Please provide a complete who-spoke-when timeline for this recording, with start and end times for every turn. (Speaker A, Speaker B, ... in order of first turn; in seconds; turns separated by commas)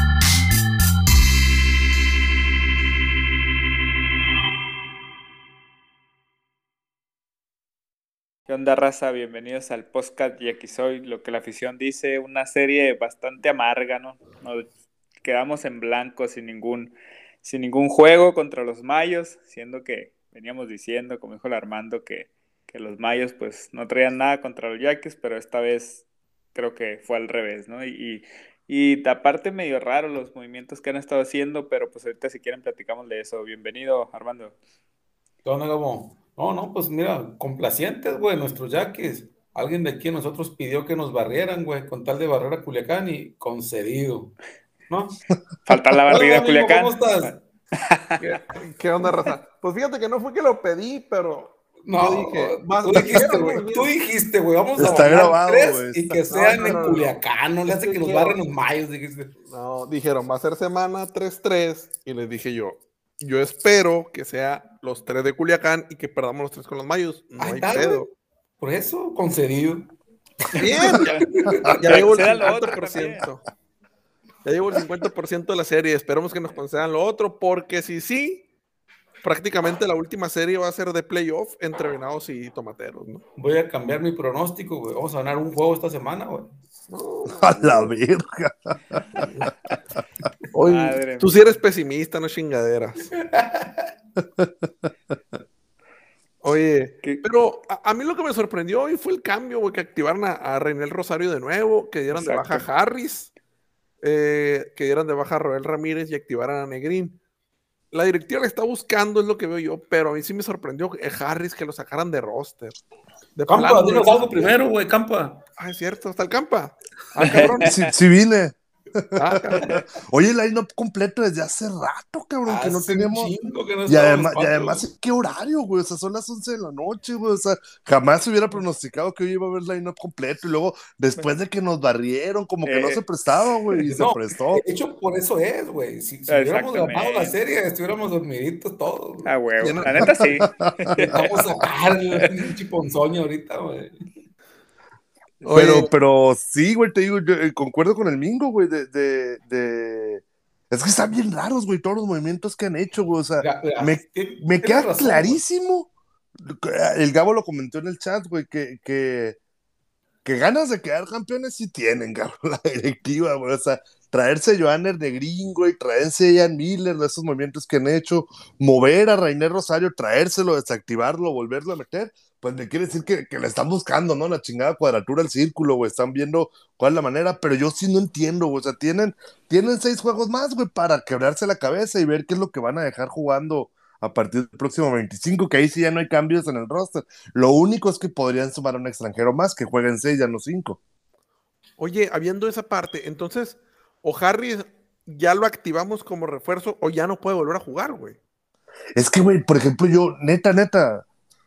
Speaker A: 8.5-14.7, Speaker A: 15.2-26.0, Speaker A: 26.5-34.5, Speaker B: 35.4-44.3, Speaker B: 44.9-45.2, Speaker A: 45.6-48.2, Speaker B: 46.1-47.4, Speaker B: 48.2-48.6, Speaker C: 48.6-53.9, Speaker B: 51.8-59.3, Speaker D: 54.8-56.7, Speaker C: 56.3-58.4, Speaker C: 59.5-68.1, Speaker B: 67.4-68.0, Speaker B: 68.6-72.7, Speaker C: 70.5-73.4, Speaker A: 71.8-73.3, Speaker C: 74.4-78.5, Speaker C: 79.2-83.2, Speaker B: 83.4-86.5, Speaker C: 86.9-87.9, Speaker D: 87.3-89.5, Speaker C: 89.2-89.5, Speaker C: 90.5-93.1, Speaker A: 90.6-91.5, Speaker B: 93.1-93.9, Speaker C: 96.4-103.3, Speaker A: 102.1-102.6, Speaker C: 104.0-107.2, Speaker C: 107.9-112.8, Speaker C: 113.3-114.6, Speaker B: 113.5-115.4, Speaker C: 115.6-117.9, Speaker A: 117.2-117.6, Speaker D: 117.6-123.3, Speaker C: 119.2-119.8, Speaker B: 122.5-124.8, Speaker D: 123.9-134.6, Speaker A: 132.7-133.0, Speaker B: 133.9-139.3, Speaker A: 136.3-137.3, Speaker A: 139.2-141.4, Speaker C: 139.6-139.9, Speaker D: 140.0-141.2, Speaker B: 141.0-144.0, Speaker D: 145.4-155.9, Speaker C: 145.4-145.9, Speaker B: 153.4-155.4, Speaker D: 156.4-159.4, Speaker D: 160.2-190.8, Speaker C: 191.8-198.2, Speaker D: 198.9-201.0